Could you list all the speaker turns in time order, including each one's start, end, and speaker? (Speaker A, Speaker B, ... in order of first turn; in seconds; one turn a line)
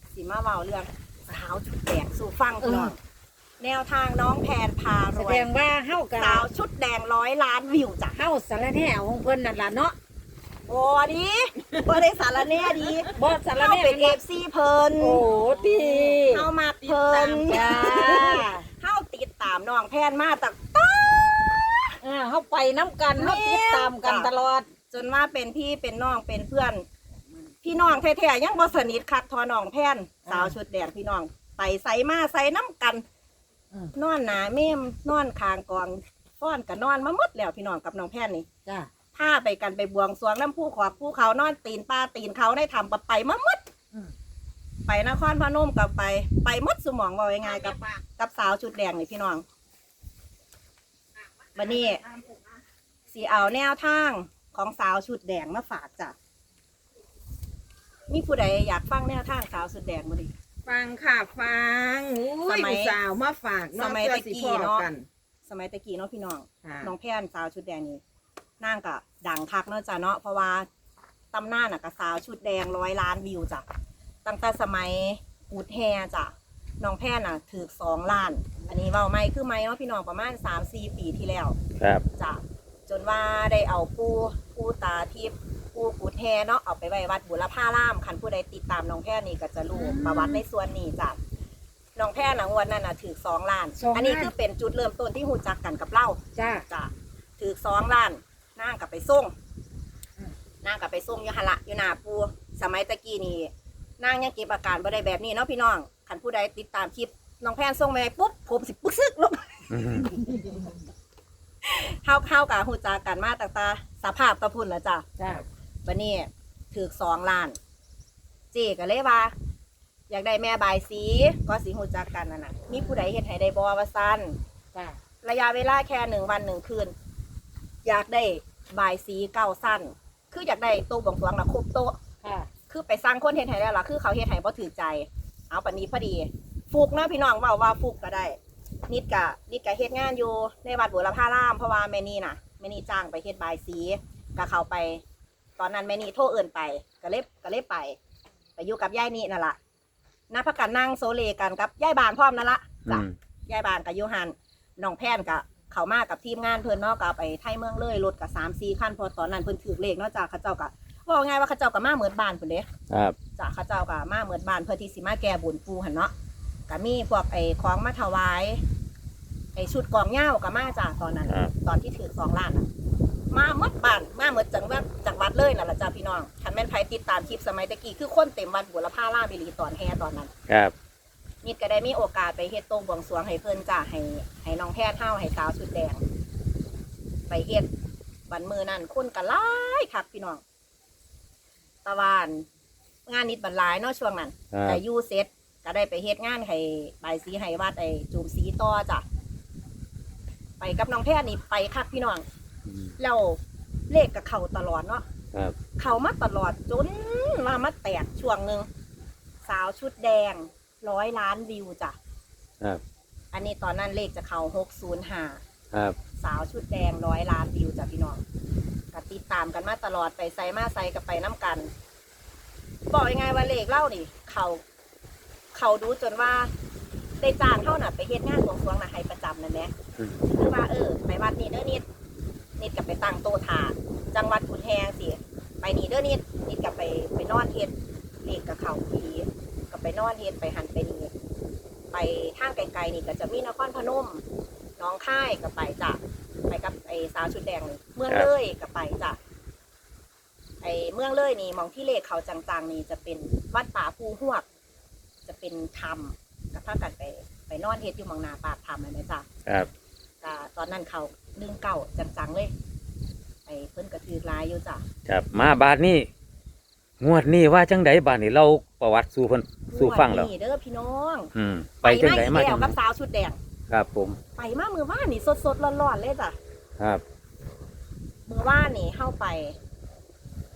Speaker A: 0.1-3.0
Speaker B: 2.6-2.9
Speaker A: 3.6-5.5
Speaker B: 5.1-6.5
Speaker A: 6.2-8.2
Speaker B: 8.1-10.0
Speaker A: 10.7-15.2
Speaker B: 13.2-14.2
Speaker B: 15.0-16.5
Speaker C: 15.3-16.2
Speaker A: 16.3-21.9
Speaker C: 16.8-18.4
Speaker B: 17.3-18.6
Speaker B: 22.0-24.7
Speaker A: 23.2-24.3
Speaker A: 24.9-26.9
Speaker A: 27.6-33.0
Speaker B: 30.3-30.6
Speaker A: 34.0-38.5
Speaker B: 38.7-38.9
Speaker A: 39.1-43.6
Speaker A: 44.9-49.5
Speaker B: 47.5-47.9
Speaker A: 51.5-52.0
Speaker A: 53.1-56.1
Speaker A: 58.1-60.3
Speaker C: 60.7-65.1
Speaker A: 62.4-63.0
Speaker A: 63.8-64.9
Speaker A: 65.5-68.0
Speaker C: 66.6-66.9
Speaker A: 68.6-70.7
Speaker A: 71.3-73.7
Speaker A: 74.2-81.6
Speaker D: 81.8-82.0
Speaker A: 82.2-91.2
Speaker B: 89.7-90.4
Speaker A: 92.0-99.3
Speaker B: 93.8-94.3
Speaker B: 96.4-96.7
Speaker A: 100.6-109.7
Speaker D: 109.7-110.1
Speaker A: 111.7-115.0
Speaker B: 115.2-115.4
Speaker A: 115.8-117.6
Speaker A: 118.5-119.3
Speaker A: 120.1-124.4
Speaker B: 124.7-125.0
Speaker A: 125.2-126.9
Speaker A: 127.8-132.0
Speaker B: 132.2-132.5
Speaker A: 132.7-145.0
Speaker A: 145.6-148.0
Speaker A: 148.6-149.6
Speaker A: 150.3-162.7
Speaker D: 152.9-153.2
Speaker D: 162.9-163.2
Speaker A: 163.4-166.1
Speaker A: 166.7-168.6
Speaker A: 169.6-172.7
Speaker D: 171.3-171.5
Speaker A: 173.3-180.3
Speaker D: 180.5-180.7
Speaker A: 181.4-186.0
Speaker A: 187.3-187.7
Speaker A: 188.3-190.4
Speaker A: 191.8-192.5
Speaker A: 193.1-199.1
Speaker D: 194.5-194.8
Speaker A: 200.6-202.2
Speaker A: 203.0-203.4
Speaker A: 203.9-205.1
Speaker A: 205.8-208.7
Speaker A: 209.4-212.0
Speaker A: 213.3-215.4
Speaker A: 216.2-218.2
Speaker A: 218.9-221.7
Speaker A: 222.9-224.6
Speaker A: 225.5-226.5
Speaker A: 227.2-229.7
Speaker D: 230.0-230.3
Speaker A: 230.3-231.8
Speaker A: 232.6-241.1
Speaker A: 241.9-244.2
Speaker A: 244.8-249.2
Speaker A: 250.6-254.4
Speaker A: 255.3-259.3
Speaker A: 260.2-262.5
Speaker A: 263.5-264.8
Speaker D: 265.1-266.1
Speaker D: 267.0-270.3
Speaker A: 269.7-271.3
Speaker D: 271.4-272.7
Speaker A: 271.8-273.4
Speaker D: 273.7-274.2
Speaker A: 274.4-276.4
Speaker A: 278.3-279.6